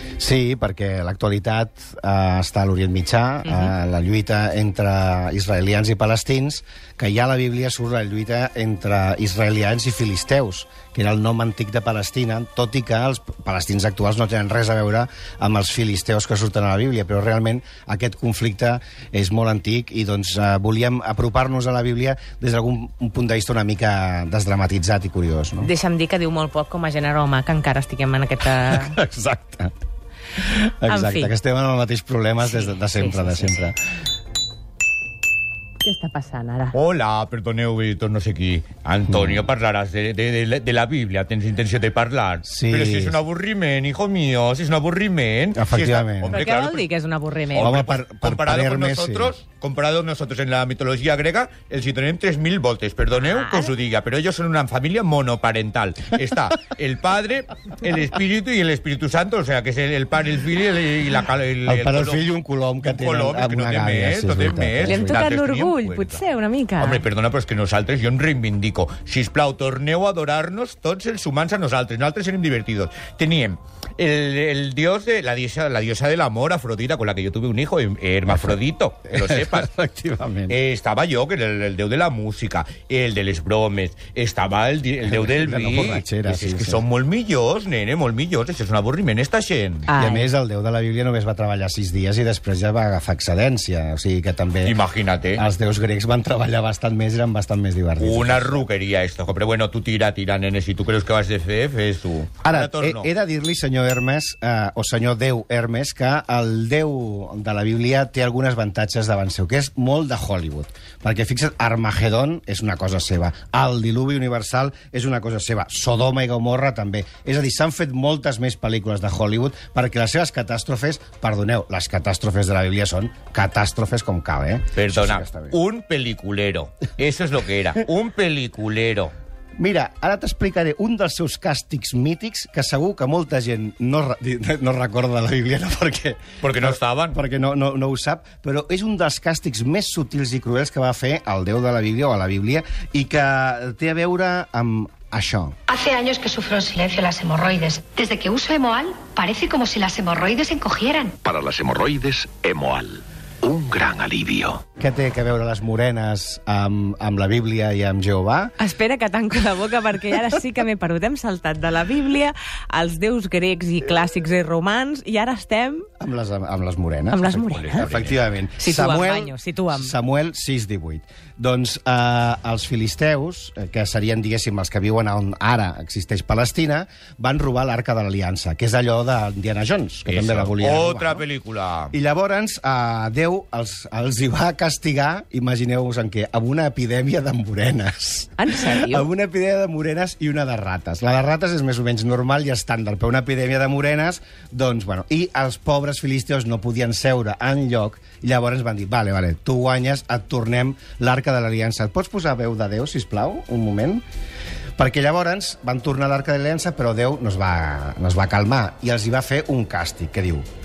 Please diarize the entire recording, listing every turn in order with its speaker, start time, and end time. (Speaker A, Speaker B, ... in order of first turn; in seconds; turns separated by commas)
Speaker A: 0.2-25.7, Speaker B: 3.4-3.7, Speaker B: 25.6-28.9, Speaker A: 28.7-29.7, Speaker A: 30.4-33.7, Speaker B: 30.9-31.3, Speaker B: 32.4-33.7, Speaker B: 35.8-36.7, Speaker C: 36.7-46.8, Speaker A: 39.1-39.5, Speaker A: 42.4-43.2, Speaker A: 45.5-46.4, Speaker B: 46.2-47.8, Speaker C: 47.5-62.2, Speaker A: 47.6-49.3, Speaker B: 53.2-53.7, Speaker A: 61.6-65.2, Speaker C: 62.8-66.2, Speaker B: 64.8-67.0, Speaker C: 66.8-79.7, Speaker A: 78.3-78.5, Speaker A: 79.1-80.6, Speaker C: 80.5-89.9, Speaker A: 85.0-86.8, Speaker B: 89.9-90.3, Speaker A: 89.9-94.8, Speaker C: 94.6-95.4, Speaker A: 95.3-98.6, Speaker C: 98.0-103.1, Speaker A: 102.4-125.6, Speaker C: 124.7-129.1, Speaker A: 129.6-145.6, Speaker C: 136.4-137.2, Speaker D: 145.7-151.2, Speaker E: 151.2-154.6, Speaker A: 154.8-158.5, Speaker B: 158.6-165.9, Speaker A: 166.0-181.2, Speaker B: 167.1-167.9, Speaker C: 167.4-168.1, Speaker B: 168.6-169.9, Speaker C: 180.1-181.9, Speaker A: 181.9-204.0, Speaker B: 188.4-189.1, Speaker A: 204.8-210.4